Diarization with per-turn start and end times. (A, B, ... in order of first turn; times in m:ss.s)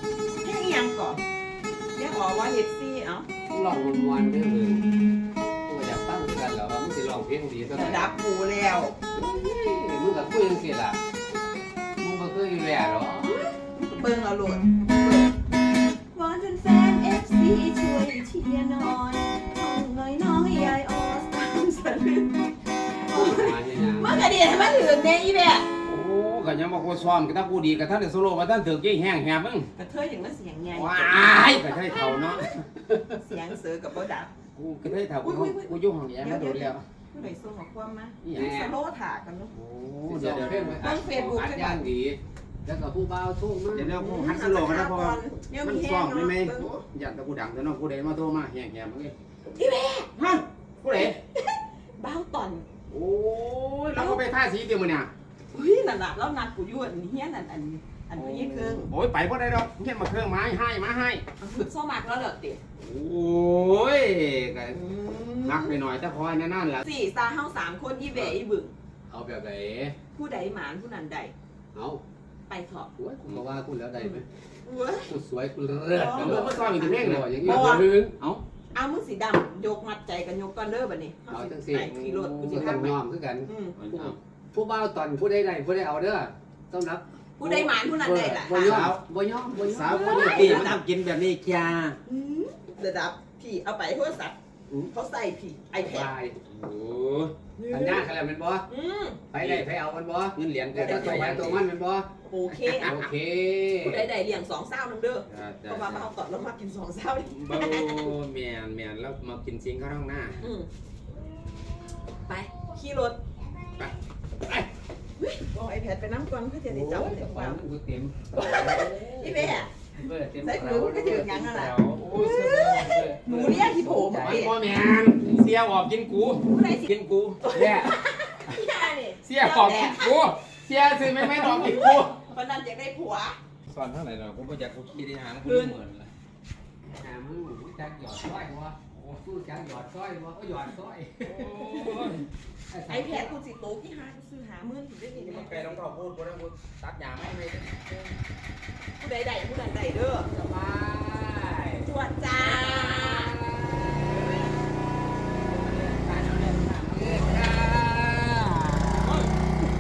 0:00.4-0:01.2 A
0:02.0-0:03.3 A
0:03.5-0:04.9 B
0:05.7-0:08.1 B
0:07.7-0:09.0 A
0:09.1-0:11.0 B
0:12.0-0:13.4 B
0:13.3-0:15.4 A
0:16.1-0:25.7 A
0:23.1-0:24.2 B
0:25.8-0:29.7 C
0:29.8-0:32.5 A
0:30.7-0:32.6 C
0:33.1-0:34.3 A
0:34.6-0:36.8 C
0:35.1-0:39.5 A
0:38.2-0:38.6 C
0:38.3-0:38.7 B
0:39.5-0:40.9 C
0:40.1-0:43.9 B
0:40.8-0:41.8 A
0:43.7-0:49.1 C
0:43.9-0:46.8 A
0:49.6-0:50.1 A
0:50.2-0:51.2 C
0:50.9-0:52.7 A
0:52.9-0:55.1 C
0:53.9-0:54.2 A
0:55.5-0:58.9 A
0:58.2-1:01.2 C
1:01.4-1:02.6 A
1:02.8-1:04.8 C
1:04.7-1:05.8 A
1:05.4-1:06.8 C
1:06.8-1:08.7 A
1:09.1-1:10.0 B
1:10.1-1:11.3 A
1:11.7-1:12.0 B
1:12.5-1:12.9 A
1:13.0-1:14.2 B
1:14.0-1:15.1 A
1:15.1-1:18.1 B
1:15.9-1:17.9 A
1:16.0-1:18.4 C
1:18.7-1:23.8 A
1:21.3-1:30.7 B
1:21.9-1:22.6 C
1:23.8-1:24.2 C
1:27.4-1:28.9 A
1:28.5-1:29.0 C
1:29.5-1:32.0 C
1:29.9-1:30.8 A
1:32.0-1:34.4 A
1:34.9-1:36.1 A
1:35.8-1:36.4 B
1:36.5-1:37.3 C
1:37.6-1:38.1 A
1:37.7-1:38.7 B
1:38.7-1:39.2 A
1:39.3-1:42.1 B
1:39.3-1:39.7 C
1:40.3-1:41.7 C
1:40.8-1:41.5 A
1:42.3-1:42.9 A
1:42.6-1:43.0 C
1:42.7-1:44.1 B
1:43.8-1:48.1 A
1:45.3-1:46.1 C
1:47.3-1:50.4 C
1:50.4-1:50.7 A
1:52.3-1:53.2 A
1:55.2-1:57.6 A
1:56.7-2:04.5 B
1:58.3-1:59.7 A
2:00.4-2:04.5 A
2:04.2-2:07.7 C
2:06.5-2:06.9 A
2:07.4-2:10.2 A
2:07.5-2:08.0 B
2:09.2-2:12.2 C
2:11.4-2:13.4 A
2:13.7-2:16.1 C
2:15.4-2:15.8 A
2:16.9-2:21.5 B
2:21.2-2:22.2 C
2:22.7-2:23.4 B
2:22.9-2:25.8 A
2:25.2-2:28.2 C
2:29.0-2:30.3 A
2:30.3-2:34.6 C
2:31.8-2:33.4 A
2:35.4-2:37.3 C
2:36.8-2:39.2 B
2:39.0-2:39.3 C